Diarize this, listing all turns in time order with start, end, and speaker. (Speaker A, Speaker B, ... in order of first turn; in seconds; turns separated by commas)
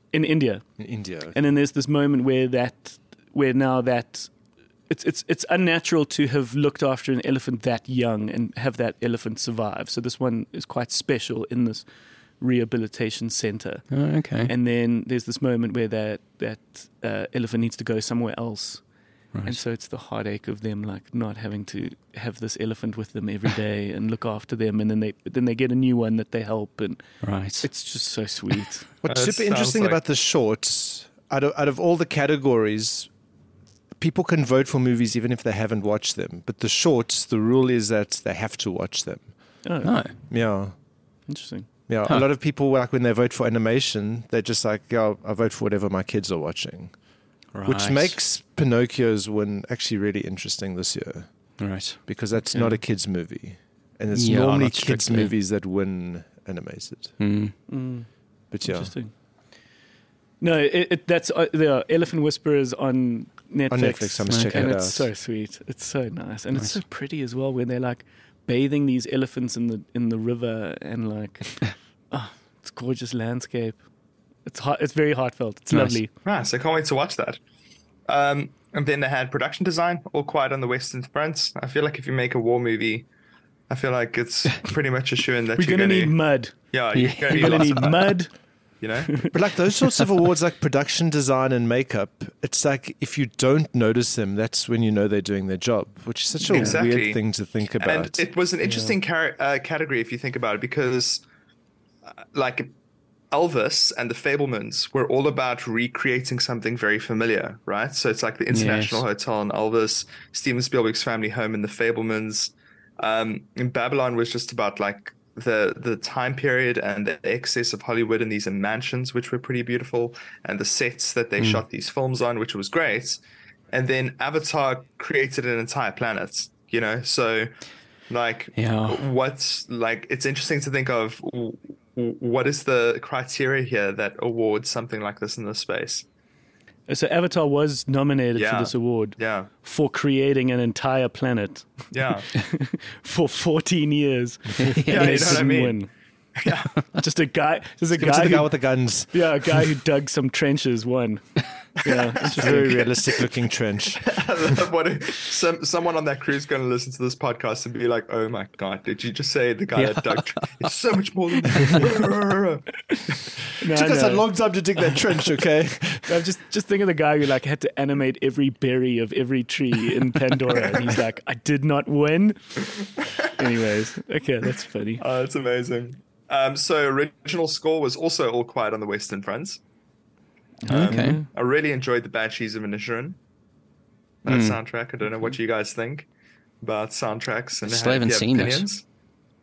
Speaker A: 0.1-0.7, Speaker B: 0.8-1.4, Speaker A: 1.3-4.3, Speaker A: 4.9-11.8, Speaker A: 12.4-13.9, Speaker C: 13.9-14.5, Speaker A: 14.4-18.8, Speaker C: 19.3-19.6, Speaker A: 19.4-27.0, Speaker C: 27.2-27.7, Speaker A: 27.6-28.9, Speaker B: 29.0-33.1, Speaker D: 29.1-30.0, Speaker B: 34.0-39.3, Speaker A: 39.6-40.0, Speaker C: 39.8-40.1, Speaker B: 40.3-40.7, Speaker A: 41.3-41.7, Speaker B: 41.9-46.9, Speaker C: 47.5-48.2, Speaker B: 47.6-51.3, Speaker C: 51.6-52.0, Speaker B: 52.1-57.1, Speaker C: 54.1-55.3, Speaker C: 57.2-57.5, Speaker A: 57.7-58.1, Speaker B: 58.5-58.9, Speaker A: 58.6-59.1, Speaker A: 60.4-73.8, Speaker B: 63.7-65.1, Speaker C: 64.3-64.7, Speaker C: 66.5-66.8, Speaker A: 74.5-76.1, Speaker C: 75.7-76.0, Speaker D: 76.2-77.4, Speaker D: 78.1-83.1, Speaker D: 83.7-86.2, Speaker A: 85.6-86.6, Speaker D: 86.7-88.1, Speaker C: 86.9-88.0, Speaker A: 87.3-88.3, Speaker D: 88.8-89.3, Speaker B: 89.3-98.2, Speaker A: 96.5-96.8, Speaker D: 96.5-97.2, Speaker D: 97.8-101.2, Speaker A: 98.6-99.0, Speaker D: 102.2-102.7, Speaker D: 103.3-123.2, Speaker C: 108.5-109.0, Speaker C: 121.4-121.6, Speaker D: 123.7-127.5, Speaker D: 128.1-136.1, Speaker C: 128.6-129.0, Speaker A: 136.9-145.9, Speaker D: 138.3-139.5, Speaker D: 141.9-142.3, Speaker C: 144.6-145.5, Speaker D: 144.9-145.8, Speaker D: 146.4-146.9, Speaker A: 146.9-148.5, Speaker B: 147.9-149.7, Speaker A: 149.1-152.9, Speaker B: 152.2-154.6, Speaker D: 152.4-152.6, Speaker D: 154.0-162.7, Speaker C: 159.8-160.5, Speaker A: 163.6-164.3, Speaker B: 163.7-166.2, Speaker A: 166.1-175.0, Speaker D: 175.0-179.6, Speaker A: 180.6-181.3, Speaker D: 180.7-183.2, Speaker C: 180.7-181.2, Speaker D: 184.2-186.1, Speaker C: 184.3-184.6, Speaker D: 186.6-188.8, Speaker C: 187.6-188.7